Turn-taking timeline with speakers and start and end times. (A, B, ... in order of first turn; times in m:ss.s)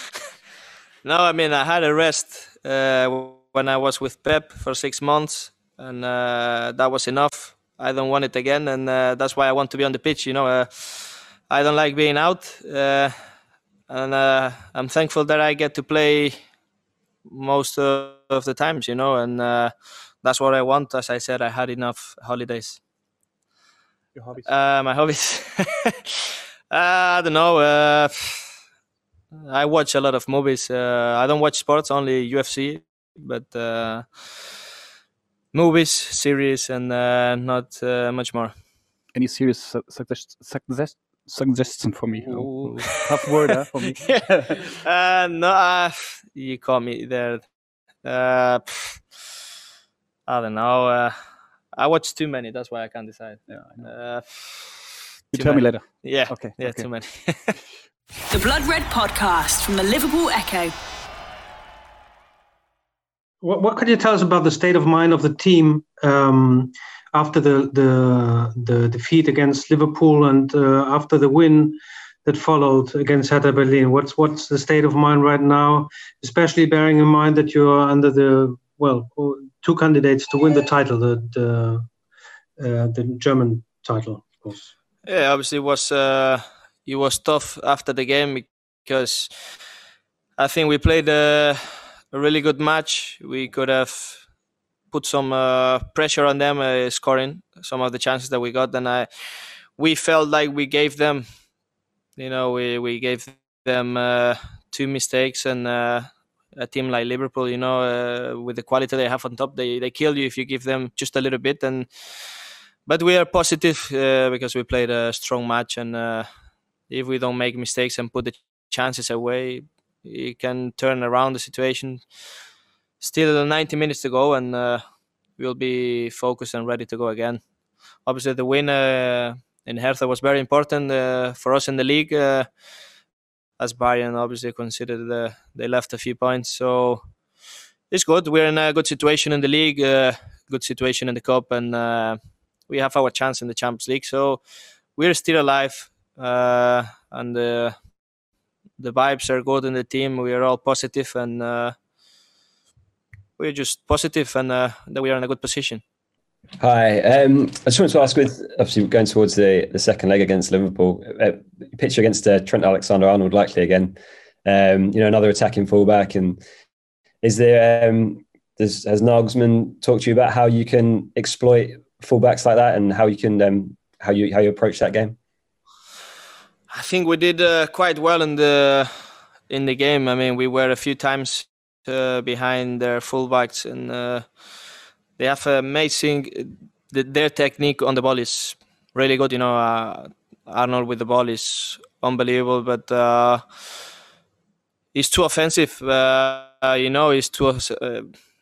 0:01.0-0:13.3 A
0:13.9-0:16.4 A
0:17.3-0:22.8 A
0:24.4-0:26.1 A
0:26.7-0:28.5 A
0:29.3-0:34.5 A
0:35.5-0:38.6 A
0:39.1-0:44.7 B
0:42.4-0:47.5 A
0:48.0-0:49.1 A
0:50.3-0:57.5 A
0:53.5-0:53.9 B
0:55.3-0:57.0 B
0:58.3-1:00.7 C
1:03.4-1:21.9 D
1:22.6-1:24.7 D
1:25.0-1:29.3 A
1:30.4-1:34.3 A
1:34.9-1:41.3 A
1:42.2-1:51.9 A
1:52.8-1:56.3 A
1:56.9-2:02.3 A
2:03.0-2:07.4 A
2:08.0-2:12.5 A
2:13.6-2:17.1 A
2:17.9-2:24.4 A
2:25.0-2:27.8 A
2:28.8-2:31.8 A
2:33.4-2:35.8 A
2:36.6-2:46.4 E
2:47.2-2:55.1 E
2:56.7-3:04.5 A
3:05.2-3:13.8 A
3:14.9-3:18.1 A